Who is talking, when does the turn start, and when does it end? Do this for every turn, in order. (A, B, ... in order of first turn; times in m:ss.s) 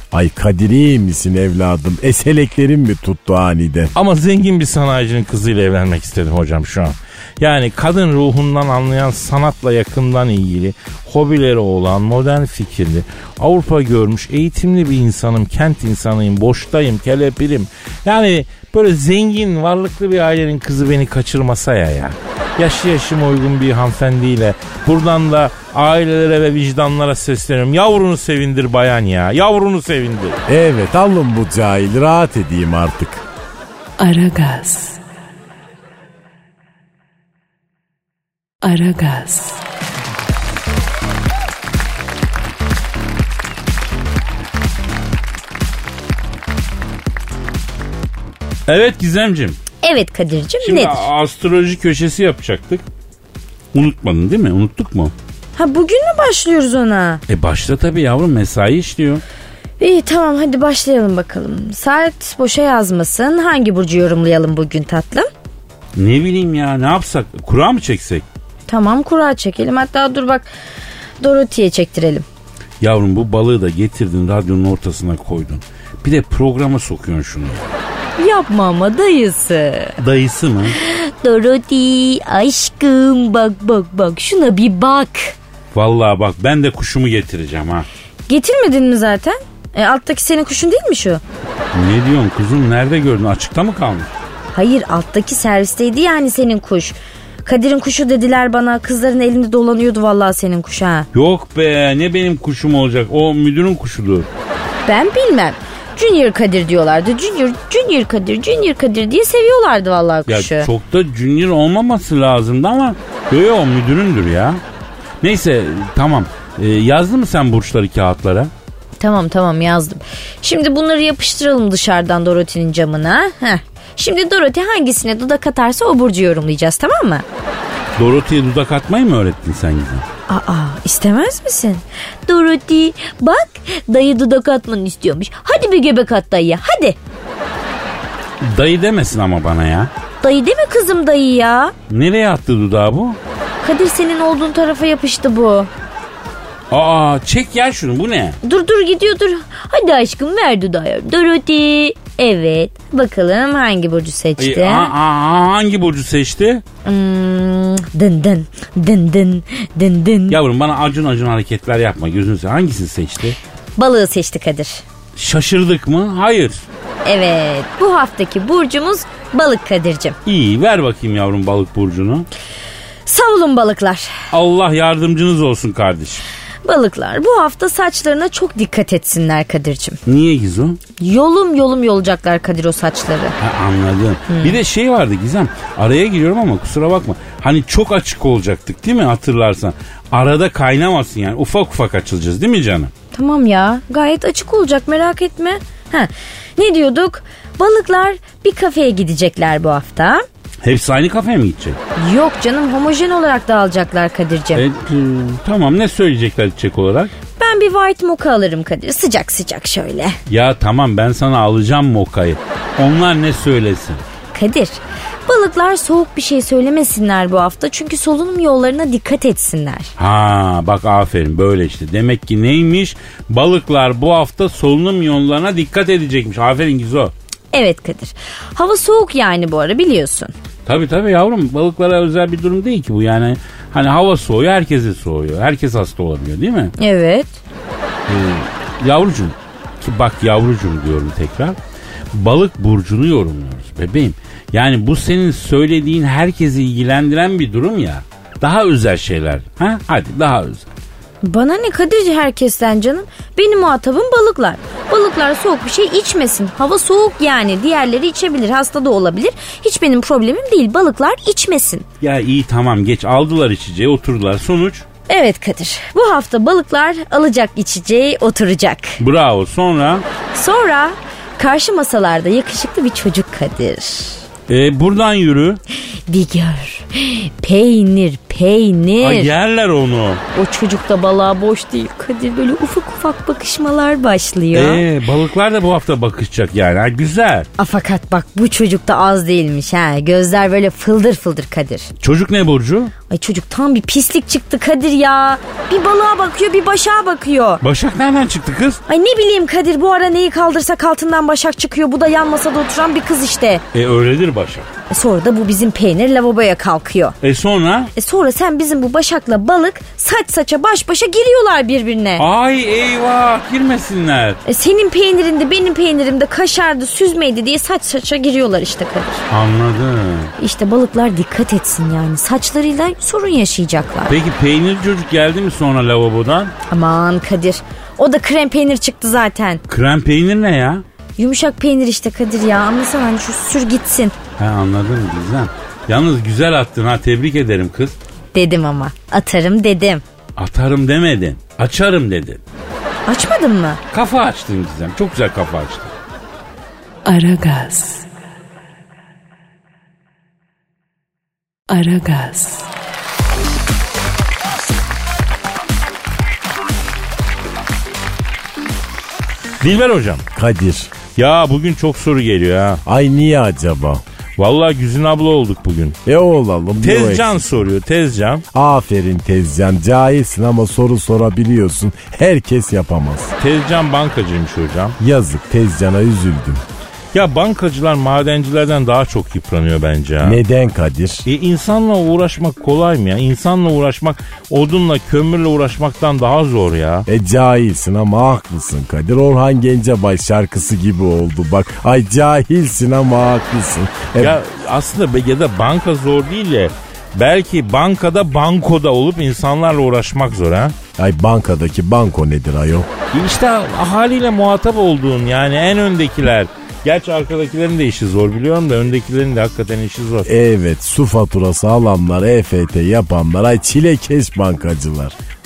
0:00.1-0:03.9 A
0:04.0-0:30.4 B
0:30.5-0:33.3 A
0:34.0-0:35.0 C
0:38.6-0:39.6 C
0:48.7-0:49.6 D
0:49.8-0:51.0 E
0:50.6-0:52.8 D
0:53.7-0:55.1 D
0:55.6-0:57.2 E
0:57.3-0:59.2 D
0:59.8-1:05.3 E
1:06.0-1:08.2 D
1:08.7-1:10.5 E
1:11.2-1:12.2 E
1:12.8-1:17.8 D
1:18.2-1:20.0 E
1:20.0-1:20.8 D
1:20.8-1:25.4 E
1:25.7-1:27.9 D
1:28.3-1:31.2 E
1:31.7-1:34.2 D
1:34.5-1:41.1 E
1:41.1-1:44.3 D
1:44.9-1:50.7 E
1:50.3-1:54.6 D
1:55.2-1:58.5 D
1:59.0-2:07.2 E
2:08.0-2:10.1 D
2:10.3-2:17.0 E
2:18.4-2:19.9 D
2:20.2-2:21.7 E
2:21.9-2:23.2 D
2:23.6-2:25.7 E
2:26.7-2:28.4 D
2:28.4-2:34.9 E
2:34.4-2:36.6 D
2:36.8-2:40.4 E
2:40.3-2:43.4 D
2:43.8-2:44.8 E
2:45.2-2:46.6 D
2:47.0-2:50.2 E
2:50.3-2:52.3 D
2:53.1-2:54.2 E
2:54.3-2:56.2 D
2:56.6-3:00.0 E
3:00.1-3:00.8 D
3:01.0-3:03.4 E
3:03.4-3:12.9 D
3:04.3-3:04.6 E
3:13.1-3:20.2 E
3:20.6-3:21.8 D
3:22.0-3:24.6 E
3:24.5-3:27.1 D
3:27.4-3:30.2 E
3:30.3-3:34.0 D
3:34.3-3:39.9 E
3:40.0-3:47.1 D
3:47.5-3:50.3 E
3:50.7-3:56.7 D
3:56.8-3:57.4 E
3:58.1-4:01.6 D
4:02.1-4:10.7 D
4:11.2-4:21.9 E
4:22.0-4:24.9 D
4:25.1-4:29.0 E
4:29.0-4:30.1 D
4:30.3-4:34.2 E
4:34.5-4:35.6 D
4:36.1-4:39.3 E
4:39.0-4:40.2 D
4:40.3-4:44.9 E
4:44.5-4:47.5 D
4:47.6-4:51.9 E
4:52.0-4:52.9 D
4:53.1-4:57.6 E
4:57.6-4:58.8 D
4:58.9-5:03.6 E
5:03.7-5:04.7 D
5:04.9-5:07.2 E
5:07.2-5:07.9 D
5:08.0-5:12.2 E
5:12.2-5:14.4 D
5:14.4-5:19.2 E
5:19.3-5:20.3 D
5:20.4-5:24.1 E
5:24.1-5:26.5 D
5:26.7-5:29.6 E
5:29.7-5:30.8 D
5:31.2-5:34.2 E
5:34.4-5:38.0 D
5:38.3-5:40.0 E
5:40.4-5:42.4 D
5:43.1-5:43.8 E
5:43.9-5:45.9 D
5:47.0-5:48.0 C
5:51.7-5:52.7 C
5:59.6-6:00.2 B
6:00.3-6:01.0 A
6:01.1-6:02.8 B
6:02.9-6:04.0 A
6:04.4-6:06.0 B
6:06.0-6:07.4 A
6:06.8-6:08.4 B
6:08.5-6:13.3 A
6:13.4-6:15.0 B
6:15.0-6:16.6 A
6:17.1-6:20.4 B
6:20.2-6:21.2 A
6:21.3-6:27.1 B
6:27.1-6:34.4 A
6:34.2-6:40.8 B
6:41.0-6:42.9 A
6:43.1-6:50.3 B
6:50.3-6:55.2 A